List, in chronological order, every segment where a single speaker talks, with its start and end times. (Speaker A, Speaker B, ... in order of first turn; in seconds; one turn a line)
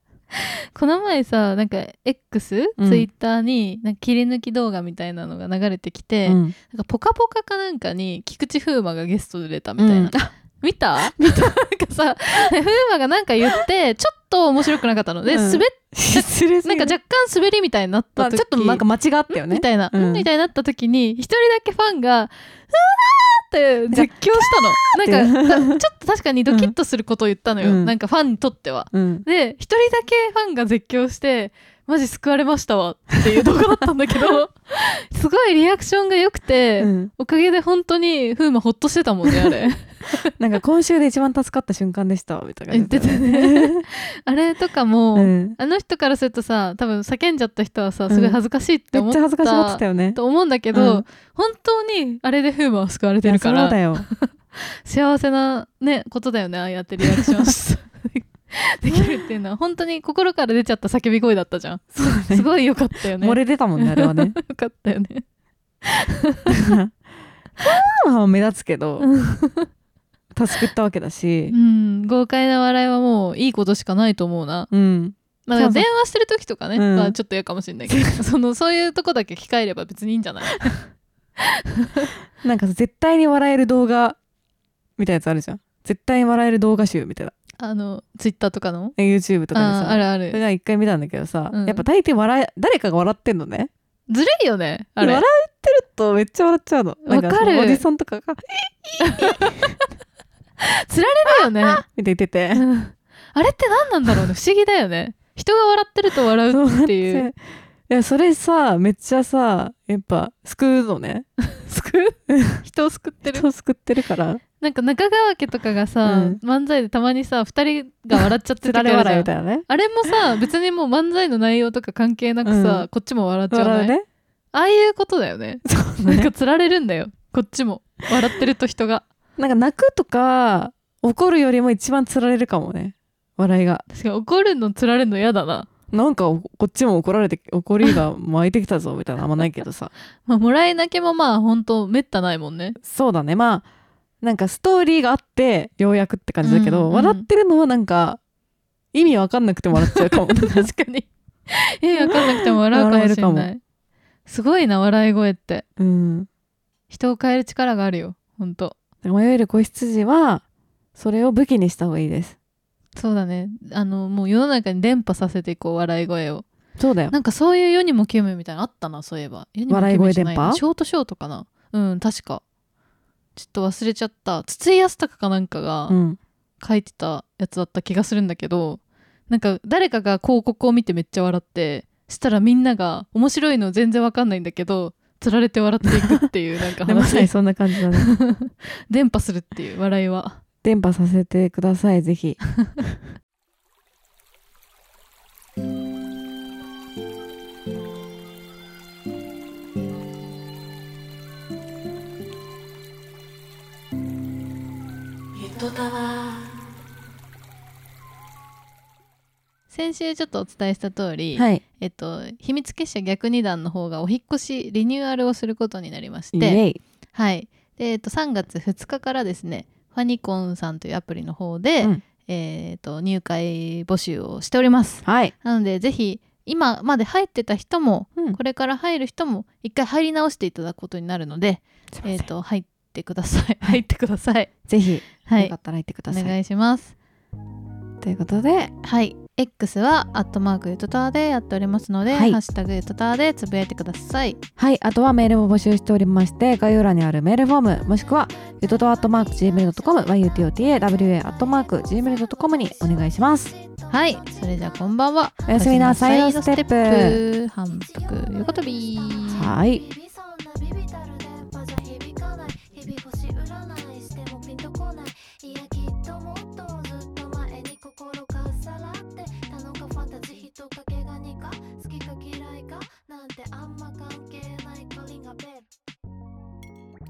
Speaker A: 0.3-40.3
Speaker B: 2.8-3.1
Speaker B: 6.2-6.5
Speaker B: 9.8-10.3
Speaker B: 11.2-11.5
Speaker B: 15.3-17.0
Speaker B: 18.2-20.3
Speaker B: 23.9-25.8
Speaker B: 27.6-27.9
Speaker B: 28.9-29.3
Speaker B: 36.8-37.1
Speaker B: 39.3-39.6
Speaker B: 40.4-43.9
Speaker A: 42.7-65.2
Speaker B: 45.1-45.6
Speaker B: 48.1-48.4
Speaker B: 48.9-50.2
Speaker B: 50.7-51.0
Speaker B: 53.2-54.1
Speaker B: 57.2-57.5
Speaker B: 62.0-62.5
Speaker B: 63.2-64.4
Speaker A: 65.8-66.7
Speaker B: 66.5-67.0
Speaker B: 67.6-69.1
Speaker A: 69.0-69.7
Speaker B: 70.3-71.5
Speaker A: 71.5-74.7
Speaker B: 74.7-75.9
Speaker A: 75.5-80.8
Speaker B: 76.8-77.2
Speaker B: 77.9-78.2
Speaker A: 81.4-82.1
Speaker B: 82.4-84.2
Speaker B: 85.0-87.3
Speaker A: 87.6-89.0
Speaker B: 89.0-93.7
Speaker A: 89.5-90.4
Speaker A: 91.5-91.8
Speaker A: 94.1-95.2
Speaker B: 95.0-99.6
Speaker A: 97.0-97.8
Speaker A: 99.0-99.8
Speaker A: 100.6-101.8
Speaker B: 101.3-102.6
Speaker A: 102.5-107.3
Speaker B: 106.5-107.4
Speaker B: 107.9-111.3
Speaker A: 111.5-113.5
Speaker B: 112.3-112.6
Speaker B: 113.2-114.4
Speaker A: 114.6-123.9
Speaker B: 116.0-116.4
Speaker B: 118.2-119.7
Speaker B: 122.5-122.9
Speaker B: 123.5-124.0
Speaker A: 124.5-129.1
Speaker B: 125.7-126.3
Speaker B: 129.4-133.8
Speaker A: 133.9-135.7
Speaker B: 135.9-139.9
Speaker A: 140.3-142.8
Speaker B: 142.8-143.7
Speaker B: 144.2-148.2
Speaker A: 146.4-147.3
Speaker B: 148.9-150.7
Speaker A: 149.8-153.6
Speaker B: 152.0-153.5
Speaker A: 154.3-155.7
Speaker B: 155.8-156.3
Speaker A: 156.9-158.8
Speaker B: 159.0-160.4
Speaker B: 161.0-162.4
Speaker A: 163.0-166.5
Speaker B: 166.8-167.1
Speaker A: 167.1-172.4
Speaker B: 169.7-170.6
Speaker A: 173.4-176.0
Speaker B: 175.9-176.2
Speaker A: 176.6-187.3
Speaker B: 186.9-188.1
Speaker A: 187.9-190.4
Speaker B: 190.6-192.4
Speaker B: 205.4-206.2
Speaker A: 209.7-216.6
Speaker B: 211.4-211.6
Speaker B: 216.3-216.8
Speaker A: 217.1-234.5
Speaker B: 225.1-225.3
Speaker B: 231.9-232.3
Speaker B: 234.7-236.4
Speaker A: 235.3-235.5
Speaker A: 236.1-236.9
Speaker B: 238.0-238.7
Speaker A: 238.8-244.4
Speaker B: 242.1-242.4
Speaker B: 244.6-253.5
Speaker C: 247.8-255.5
Speaker A: 253.9-259.5
Speaker B: 255.5-257.2
Speaker C: 257.7-275.7
Speaker B: 259.3-259.8